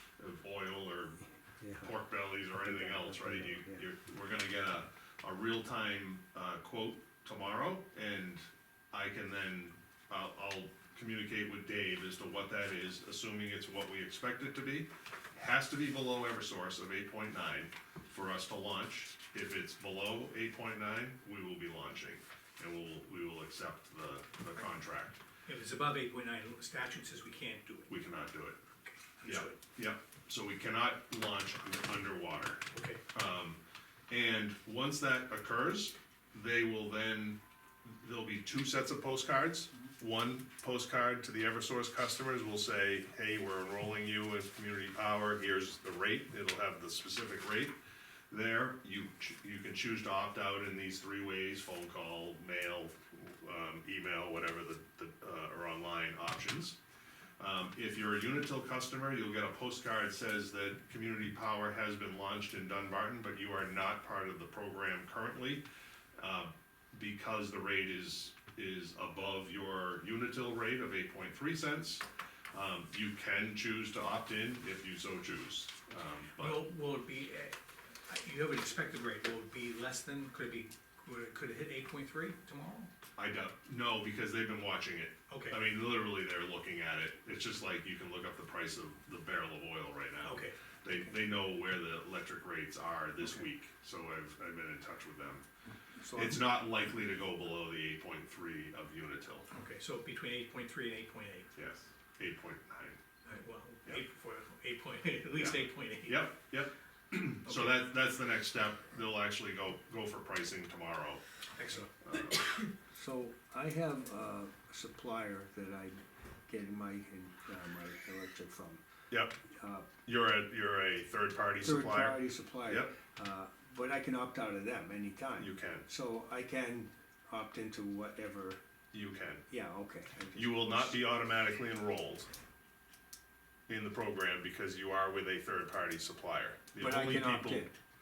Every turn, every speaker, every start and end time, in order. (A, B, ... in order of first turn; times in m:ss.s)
0:00.2-0:01.2 A
0:01.6-0:01.9 B
0:01.8-0:25.2 A
0:02.6-0:03.8 B
0:25.4-0:27.9 C
0:27.9-0:28.6 A
0:28.8-0:29.6 C
0:29.2-0:47.7 A
0:32.7-0:33.0 C
0:48.3-0:56.8 A
0:57.4-1:05.6 A
1:06.2-1:16.6 A
1:16.4-1:17.6 C
1:18.1-1:22.9 C
1:23.2-1:35.4 A
1:25.3-1:25.6 C
1:30.2-1:30.6 C
1:36.0-1:36.5 B
1:36.1-1:39.5 A
1:39.5-1:41.5 C
1:41.5-1:43.0 A
1:43.2-1:46.2 C
1:45.4-1:51.2 A
1:47.4-1:47.8 C
1:51.6-1:52.6 C
1:52.0-1:52.5 A
1:52.9-1:58.8 B
1:59.1-1:59.4 A
1:59.5-1:59.9 B
2:00.0-2:02.9 A
2:01.6-2:08.6 B
2:05.4-2:05.8 A
2:08.9-2:09.4 A
2:09.5-2:11.0 B
2:10.3-2:12.3 A
2:13.7-2:17.7 A
2:16.8-2:17.7 B